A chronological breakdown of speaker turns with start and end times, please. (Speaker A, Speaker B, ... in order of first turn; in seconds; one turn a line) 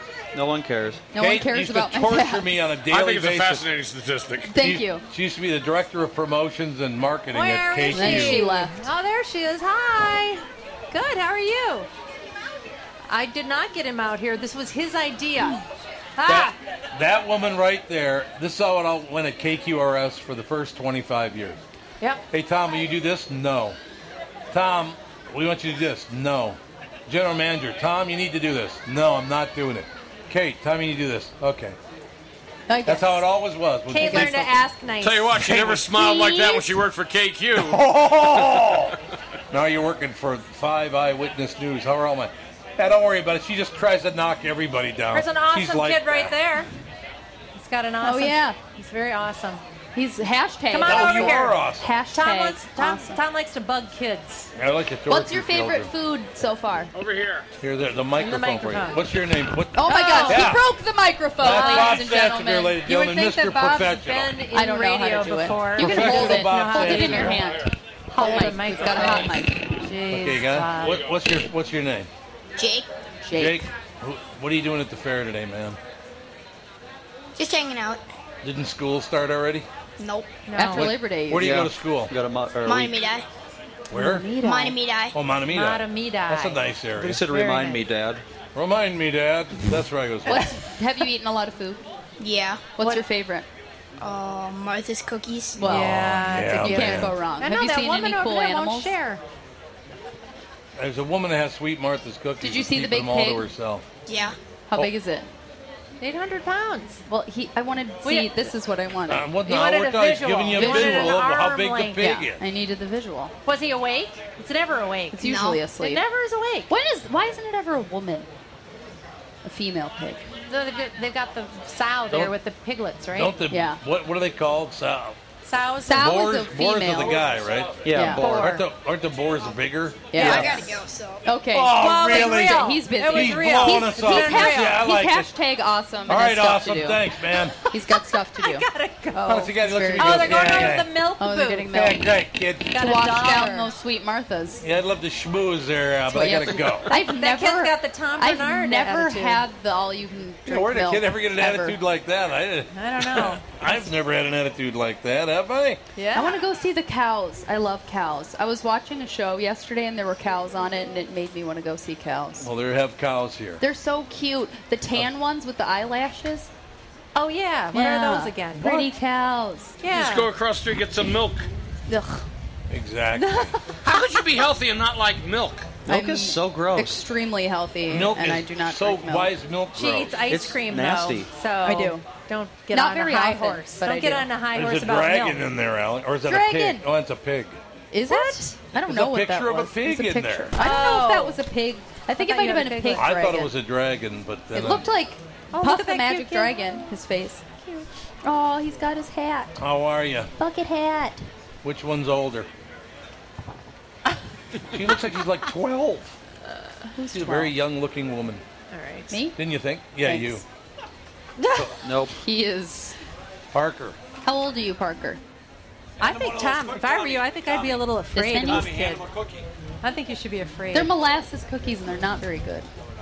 Speaker A: 0.3-1.0
Speaker B: 1.1-2.5
Speaker C: 1.1-3.7
Speaker D: 2.9-4.5
Speaker B: 4.5-5.0
Speaker C: 4.5-8.4
Speaker E: 7.3-11.9
Speaker B: 7.9-8.8
Speaker E: 13.1-15.6
Speaker E: 16.2-16.5
Speaker C: 16.2-21.6
Speaker C: 22.3-23.8
Speaker C: 24.5-31.8
Speaker B: 32.7-33.2
Speaker C: 32.9-34.5
Speaker E: 33.9-35.4
Speaker B: 34.0-34.6
Speaker D: 35.0-37.8
Speaker C: 35.4-35.9
Speaker B: 35.9-36.8
Speaker C: 37.5-38.9
Speaker C: 39.5-46.3
Speaker E: 45.1-46.7
Speaker E: 47.5-49.6
Speaker B: 48.0-48.6
Speaker B: 49.9-53.2
Speaker E: 50.7-54.5
Speaker C: 50.8-51.9
Speaker C: 54.5-55.9
Speaker B: 55.1-56.9
Speaker D: 56.9-57.5
Speaker C: 57.6-60.7
Speaker E: 58.2-59.0
Speaker B: 59.7-62.8
Speaker E: 59.9-60.5
Speaker C: 61.4-64.3
Speaker E: 61.4-62.1
Speaker E: 62.8-67.5
Speaker B: 64.5-69.7
Speaker C: 65.8-67.4
Speaker E: 68.1-71.0
Speaker C: 70.1-72.1
Speaker D: 70.8-71.1
Speaker F: 72.6-72.9
Speaker B: 73.2-73.7
Speaker C: 73.3-75.8
Speaker F: 77.3-78.0
Speaker C: 78.4-79.7
Speaker F: 80.0-80.4
Speaker E: 80.5-81.0
Speaker B: 80.5-81.7
Speaker C: 80.7-82.1
Speaker A: 81.4-82.9
Speaker F: 82.6-83.2
Speaker C: 83.9-84.3
Speaker B: 83.9-84.8
Speaker F: 84.4-85.1
Speaker C: 85.1-87.2
Speaker E: 85.5-86.7
Speaker A: 87.0-88.2
Speaker E: 87.3-87.8
Speaker C: 88.5-90.5
Speaker B: 90.2-91.8
Speaker F: 92.2-92.7
Speaker B: 92.8-93.5
Speaker E: 92.8-93.0
Speaker F: 94.0-95.7
Speaker B: 95.6-98.9
Speaker E: 95.6-99.2
Speaker C: 95.7-97.1
Speaker C: 100.8-103.8
Speaker B: 102.4-103.5
Speaker F: 104.1-104.3
Speaker B: 104.7-105.3
Speaker E: 106.0-107.0
Speaker B: 107.1-109.3
Speaker E: 108.0-108.5
Speaker C: 109.1-112.4
Speaker E: 109.5-112.1
Speaker B: 110.5-111.2
Speaker B: 112.0-113.3
Speaker E: 113.5-116.7
Speaker B: 115.1-116.0
Speaker F: 115.2-115.7
Speaker B: 116.7-118.3
Speaker B: 119.4-120.2
Speaker E: 120.5-123.4
Speaker C: 123.1-125.2
Speaker B: 123.5-123.8
Speaker E: 125.4-126.3
Speaker B: 125.8-127.3
Speaker C: 125.9-130.2
Speaker A: 127.8-128.5
Speaker B: 127.9-128.2
Speaker E: 128.1-128.6
Speaker B: 130.1-130.7
Speaker E: 130.2-130.6
Speaker F: 130.2-131.3
Speaker B: 131.2-137.0
Speaker C: 131.5-135.3
Speaker E: 131.7-134.9
Speaker C: 136.1-137.6
Speaker E: 137.6-139.4
Speaker B: 137.7-142.1
Speaker C: 139.2-140.9
Speaker E: 140.0-141.9
Speaker C: 141.7-142.8
Speaker E: 142.7-143.7
Speaker B: 142.7-144.6
Speaker C: 144.6-146.9
Speaker B: 146.1-151.8
Speaker E: 146.9-149.4
Speaker C: 150.5-155.8
Speaker E: 152.7-153.4
Speaker E: 155.9-156.3
Speaker B: 156.0-162.5
Speaker C: 162.4-163.6
Speaker B: 163.6-166.5
Speaker E: 167.1-168.9
Speaker B: 167.7-169.8
Speaker E: 169.8-170.3
Speaker D: 169.9-171.5
Speaker B: 171.9-172.2
Speaker C: 172.7-173.6
Speaker D: 173.8-175.7
Speaker A: 175.8-177.0
Speaker B: 175.8-179.3
Speaker C: 177.9-180.1
Speaker E: 179.7-185.4
Speaker A: 180.3-181.3
Speaker B: 181.6-182.1
Speaker B: 182.7-184.3
Speaker C: 184.5-187.6
Speaker B: 186.2-186.8
Speaker B: 187.9-193.5
Speaker E: 188.1-188.5
Speaker C: 188.8-190.5
Speaker E: 190.6-191.4
Speaker E: 192.2-193.1
Speaker C: 193.0-194.9
Speaker B: 194.5-197.4
Speaker E: 195.5-196.9
Speaker E: 197.6-197.9
Speaker B: 198.2-199.6
Speaker C: 199.6-200.3
Speaker B: 200.4-201.2
Speaker C: 201.6-202.5
Speaker C: 204.7-206.1
Speaker B: 206.9-207.5
Speaker C: 207.1-208.4
Speaker E: 208.7-209.2
Speaker B: 209.1-209.3
Speaker C: 209.3-210.4
Speaker B: 210.0-210.4
Speaker E: 211.4-211.7
Speaker A: 211.8-212.2
Speaker B: 212.1-213.0
Speaker C: 213.5-214.0
Speaker B: 214.2-215.2
Speaker E: 216.0-219.1
Speaker C: 216.0-217.8
Speaker B: 218.1-219.0
Speaker C: 218.4-219.4
Speaker E: 219.8-220.9
Speaker B: 220.7-222.7